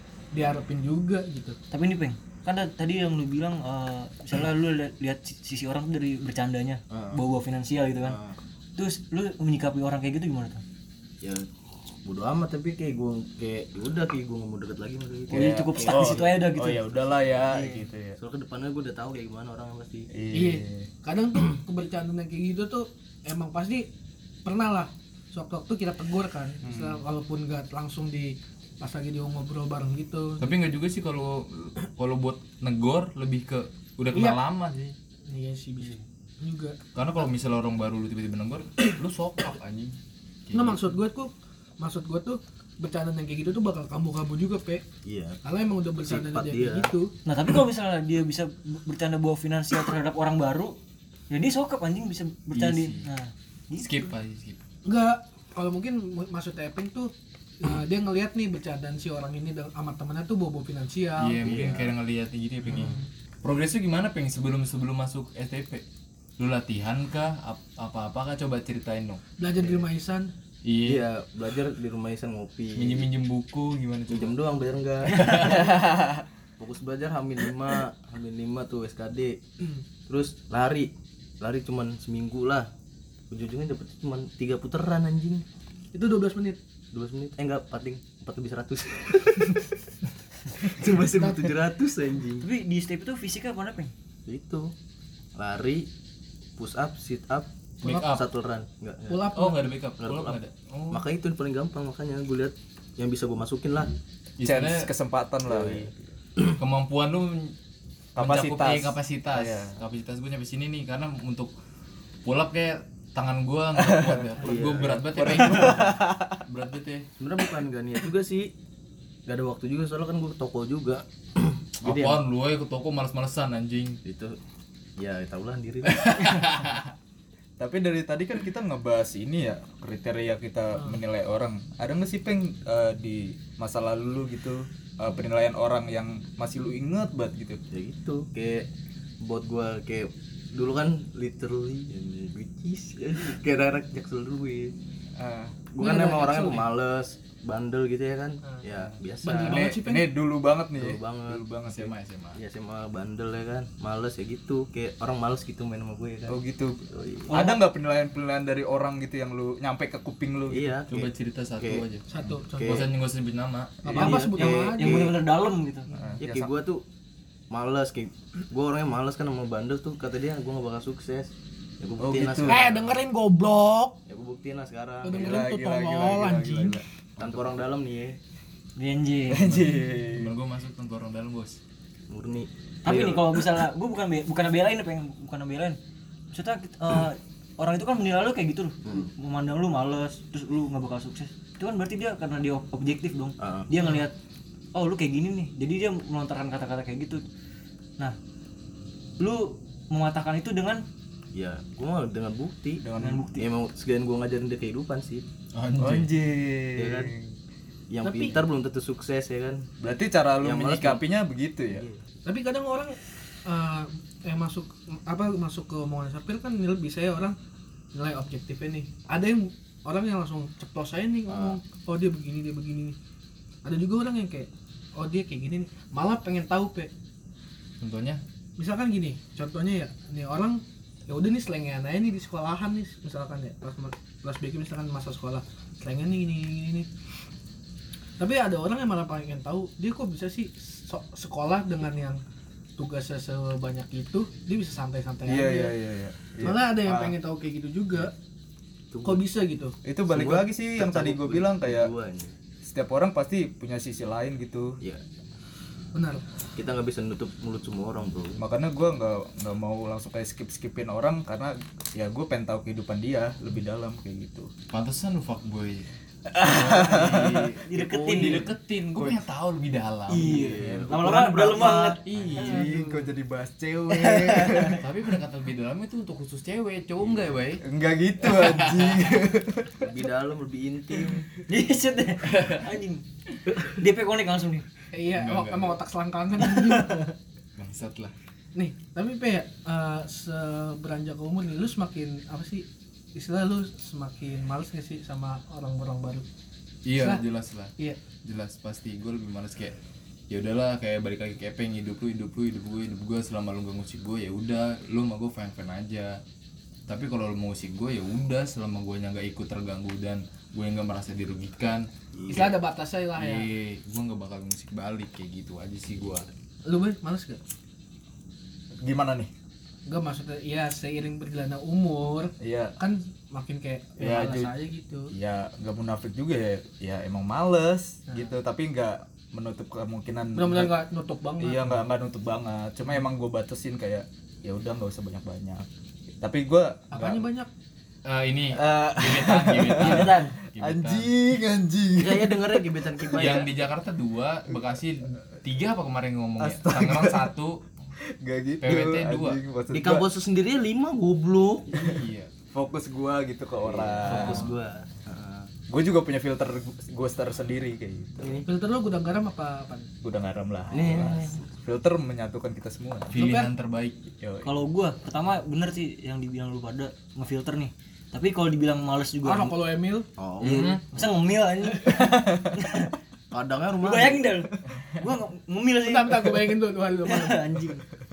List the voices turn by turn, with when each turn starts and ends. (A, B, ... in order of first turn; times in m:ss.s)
0:00.3-0:01.6 A
0:01.7-0:08.2 B
0:06.9-0:07.2 C
0:08.0-0:08.4 C
0:08.8-0:10.6 B
0:11.2-0:11.5 C
0:12.0-0:16.3 C
0:15.3-0:16.8 B
0:15.3-0:18.2 D
0:17.5-0:17.8 B
0:18.2-0:20.1 C
0:20.1-0:20.9 D
0:20.3-0:23.9 A
0:24.4-0:30.5 A
0:26.6-0:27.0 D
0:30.4-0:35.0 E
0:34.1-0:34.4 A
0:35.3-0:36.8 A
0:37.0-0:40.0 E
0:40.5-0:40.9 E
0:40.5-0:44.8 A
0:45.0-0:45.4 C
0:45.4-0:47.1 A
0:46.1-0:46.9 C
0:47.3-0:50.8 B
0:51.3-0:54.1 B
0:52.5-0:53.1 E
0:53.8-0:54.6 E
0:54.8-1:01.5 A
1:01.2-1:05.8 E
1:01.4-1:01.9 C
1:02.7-1:03.1 A
1:06.4-1:09.2 E
1:09.4-1:10.3 A
1:10.6-1:11.0 E
1:10.8-1:13.1 C
1:12.7-1:14.4 E
1:14.1-1:15.9 C
1:15.1-1:15.7 E
1:16.6-1:19.4 C
1:20.1-1:22.7 C
1:23.3-1:25.4 C
1:25.9-1:26.6 A
1:26.9-1:29.6 C
1:30.6-1:32.5 C
1:31.2-1:31.5 A
1:32.4-1:33.9 B
1:34.3-1:34.7 C
1:35.4-1:35.9 C
1:36.6-1:39.2 C
1:37.8-1:38.2 E
1:39.1-1:39.7 A
1:39.3-1:41.0 E
1:40.0-1:40.4 C
1:40.9-1:44.0 C
1:44.4-1:44.9 E
1:44.4-1:46.0 D
1:45.4-1:46.5 C
1:46.6-1:47.6 E
1:48.2-1:49.8 D
1:48.2-1:51.5 E
1:52.2-1:57.1 E
1:53.8-1:56.4 D
1:54.4-1:55.5 C
1:57.2-1:58.5 C
1:59.3-2:02.2 C
2:01.8-2:04.0 E
2:04.0-2:04.4 C
2:05.0-2:06.3 C
2:05.9-2:06.9 E
2:07.6-2:17.6 D
2:17.7-2:18.7 C
2:19.2-2:24.7 C
2:25.2-2:25.5 D
2:25.7-2:29.7 C
2:25.8-2:26.7 A
2:28.8-2:31.9 D
2:29.2-2:30.1 A
2:30.8-2:31.4 C
2:31.7-2:32.4 E
2:32.4-2:36.4 C
2:36.3-2:40.7 D
2:36.9-2:37.3 C
2:37.3-2:37.6 B
2:40.5-2:41.8 C
2:40.9-2:42.1 E
2:42.1-2:42.8 A
2:42.6-2:42.9 C
2:42.6-2:43.9 E
2:43.8-2:45.1 A
2:43.9-2:45.2 C
2:44.0-2:45.9 B
2:46.0-2:46.5 D
2:46.2-2:46.8 C
2:47.5-2:52.8 C
2:52.0-2:52.7 D
2:52.4-2:54.0 A
2:54.1-2:55.4 C
2:55.0-2:56.8 A
2:55.2-2:57.6 D
2:57.2-2:58.2 C
2:58.8-2:59.6 B
2:59.3-3:00.3 D
2:59.4-3:01.6 E
3:02.1-3:03.4 C
3:02.8-3:05.8 B
3:06.3-3:14.2 B
3:13.4-3:13.7 C
3:14.8-3:17.2 B
3:19.2-3:20.8 B
3:21.4-3:22.8 C
3:22.8-3:23.3 D
3:23.0-3:23.5 B
3:23.4-3:25.2 C
3:25.6-3:26.1 E
3:25.8-3:27.3 D
3:26.8-3:27.1 C
3:27.9-3:29.7 C
3:28.0-3:28.4 A
3:29.8-3:31.9 D
3:30.4-3:31.0 C
3:31.7-3:32.0 C
3:32.2-3:37.4 A
3:37.9-3:43.0 A
3:41.3-3:41.6 C
3:43.6-3:46.9 A
3:47.8-3:48.2 E
3:48.6-3:56.9 A
3:58.2-4:02.2 A
4:02.8-4:05.8 A
4:05.3-4:07.2 D
4:06.4-4:08.1 A
4:08.9-4:09.2 C
4:09.0-4:09.8 A
4:09.8-4:11.9 D
4:10.1-4:12.4 C
4:12.6-4:14.8 D
4:15.9-4:16.2 A
4:16.6-4:18.4 C
4:18.4-4:24.5 D
4:24.7-4:30.4 E
4:26.3-4:27.5 D
4:27.6-4:28.5 B
4:27.8-4:28.4 C
4:29.0-4:29.2 D
4:30.1-4:32.6 B
4:30.1-4:32.0 C
4:32.0-4:32.7 E
4:32.3-4:34.8 D
4:32.6-4:33.0 A
4:33.9-4:34.8 B
4:34.8-4:37.6 E
4:37.6-4:39.9 D
4:38.2-4:39.2 E
4:39.8-4:41.3 C
4:41.5-4:44.7 B
4:42.2-4:42.7 E
4:44.9-4:47.1 A
4:45.2-4:45.8 E
4:46.5-4:47.0 B
4:47.6-4:48.1 E
4:48.6-4:56.2 A
4:56.8-4:59.8 E
5:00.3-5:06.2 E
5:06.9-5:11.9 E
5:12.2-5:12.5 C
5:12.3-5:13.5 A
5:13.2-5:16.3 E
5:16.7-5:17.4 A
5:18.8-5:19.3 D
5:19.9-5:25.1 A
5:22.4-5:22.8 D
5:24.0-5:24.6 D
5:25.1-5:30.8 D
5:30.4-5:31.8 A
5:31.4-5:35.7 D
5:36.2-5:37.3 D
5:36.9-5:37.5 A
5:38.0-5:41.1 E
5:38.5-5:43.5 D
5:39.8-5:40.4 B
5:42.0-5:43.6 C
5:43.2-5:47.6 E
5:46.4-5:47.3 D
5:48.0-5:50.1 D
5:48.6-5:49.4 E
5:49.7-5:51.7 C
5:51.7-5:52.3 E
5:52.5-5:54.5 D
5:53.6-5:55.5 C
5:54.1-5:54.4 E
5:55.7-5:58.4 D
5:58.2-5:58.5 C
5:58.4-5:59.9 A
6:00.0-6:03.1 D
6:00.7-6:01.4 C
6:03.1-6:04.1 E
6:03.2-6:03.5 A
6:04.2-6:04.6 D
6:04.4-6:09.6 B
6:09.2-6:10.1 A
6:10.2-6:10.8 C
6:10.4-6:12.9 B
6:10.4-6:10.8 E
6:13.3-6:14.2 C
6:13.8-6:17.8 B
6:15.8-6:17.7 A